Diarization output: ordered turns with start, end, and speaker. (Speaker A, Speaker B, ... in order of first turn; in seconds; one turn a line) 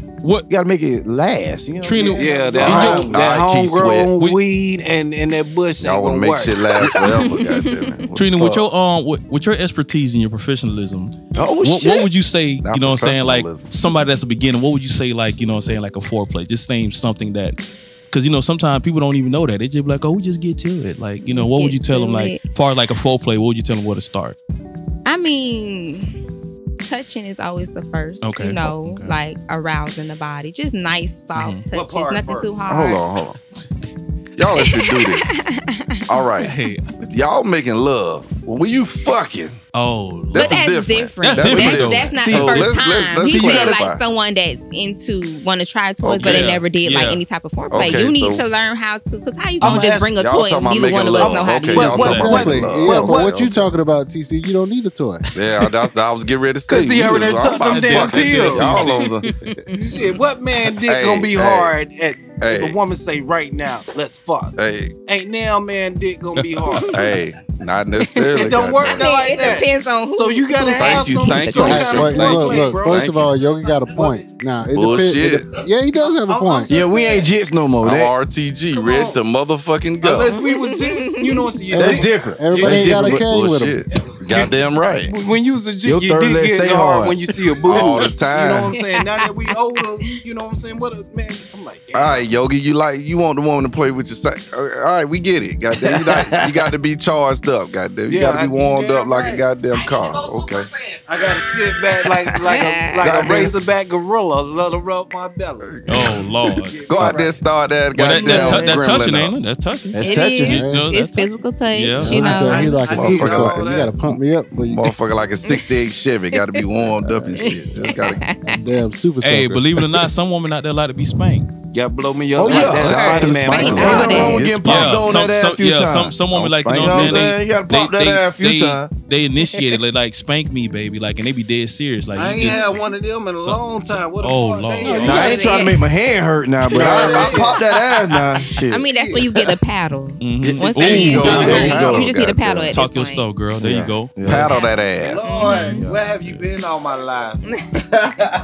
Speaker A: 0.5-3.2
Speaker B: 1.8-3.1
Speaker C: 2.0-6.7
Speaker D: 2.6-4.1
Speaker D: 5.8-8.7
Speaker E: 7.0-8.1
Speaker B: 8.1-17.6
Speaker A: 11.3-12.1
Speaker D: 12.6-13.7
Speaker B: 18.1-24.4
Speaker E: 21.2-22.4
Speaker E: 25.1-26.2
Speaker E: 26.8-33.0
Speaker B: 28.2-29.1
Speaker B: 31.4-31.7
Speaker C: 31.7-32.6
Speaker D: 32.7-33.6
Speaker D: 34.4-35.4
Speaker E: 34.6-36.0
Speaker D: 36.1-36.6
Speaker B: 36.4-37.0
Speaker D: 37.1-39.6
Speaker B: 39.7-40.6
Speaker D: 40.3-44.0
Speaker E: 40.3-52.1
Speaker B: 41.2-42.2
Speaker A: 42.1-42.7
Speaker A: 43.2-43.8
Speaker D: 46.0-46.6
Speaker B: 46.2-47.2
Speaker D: 47.7-48.5
Speaker C: 49.6-50.2
Speaker D: 49.6-53.7
Speaker C: 50.9-53.5
Speaker B: 51.9-52.5
Speaker F: 52.0-55.2
Speaker D: 55.4-59.3
Speaker C: 56.7-59.0
Speaker B: 57.6-59.1
Speaker E: 59.2-60.0
Speaker C: 59.8-64.5
Speaker D: 60.8-61.8
Speaker D: 62.4-62.8
Speaker D: 64.6-64.9
Speaker C: 65.1-67.0
Speaker B: 66.4-66.9
Speaker D: 66.9-69.6
Speaker C: 68.3-74.3
Speaker E: 68.8-72.3
Speaker D: 70.7-73.3
Speaker F: 71.6-76.7
Speaker D: 74.7-75.5
Speaker C: 76.0-77.3
Speaker A: 76.7-78.1
Speaker D: 77.8-80.3
Speaker C: 78.7-79.2
Speaker C: 80.0-83.1
Speaker E: 80.3-81.5
Speaker F: 81.7-83.8
Speaker A: 81.8-83.2
Speaker D: 82.8-85.1
Speaker C: 83.9-84.5
Speaker C: 85.1-92.3
Speaker A: 85.8-87.2
Speaker D: 87.7-88.7
Speaker E: 88.7-89.5
Speaker D: 91.9-100.7
Speaker A: 95.8-96.5
Speaker C: 98.1-99.5
Speaker C: 101.1-107.5
Speaker E: 102.5-103.3
Speaker A: 103.0-103.5
Speaker D: 105.6-106.3
Speaker B: 105.9-106.9
Speaker D: 106.9-109.3
Speaker B: 107.9-112.2
Speaker E: 108.1-109.0
Speaker A: 109.9-110.6
Speaker E: 110.0-112.8
Speaker F: 110.5-110.9
Speaker F: 112.0-114.9
Speaker C: 112.1-114.0
Speaker D: 112.8-118.2
Speaker E: 115.4-115.7
Speaker E: 116.4-116.6
Speaker E: 117.4-118.7
Speaker F: 118.5-119.9
Speaker B: 119.2-121.5
Speaker C: 121.7-124.4
Speaker A: 122.3-126.2
Speaker D: 122.4-125.2
Speaker E: 122.5-124.5
Speaker B: 124.5-135.3
Speaker D: 126.3-127.3
Speaker A: 126.7-128.9
Speaker C: 132.1-135.5
Speaker F: 134.8-135.2
Speaker E: 134.9-135.9
Speaker A: 135.0-138.9
Speaker C: 136.7-138.1
Speaker D: 136.7-137.7
Speaker E: 138.7-143.3
Speaker C: 138.8-139.5
Speaker B: 140.2-141.9
Speaker A: 140.4-142.1
Speaker D: 141.2-142.8
Speaker B: 142.7-144.4
Speaker A: 143.6-144.6
Speaker D: 143.7-145.4
Speaker C: 144.9-147.4
Speaker E: 145.2-145.8
Speaker A: 145.6-146.0
Speaker B: 146.1-146.4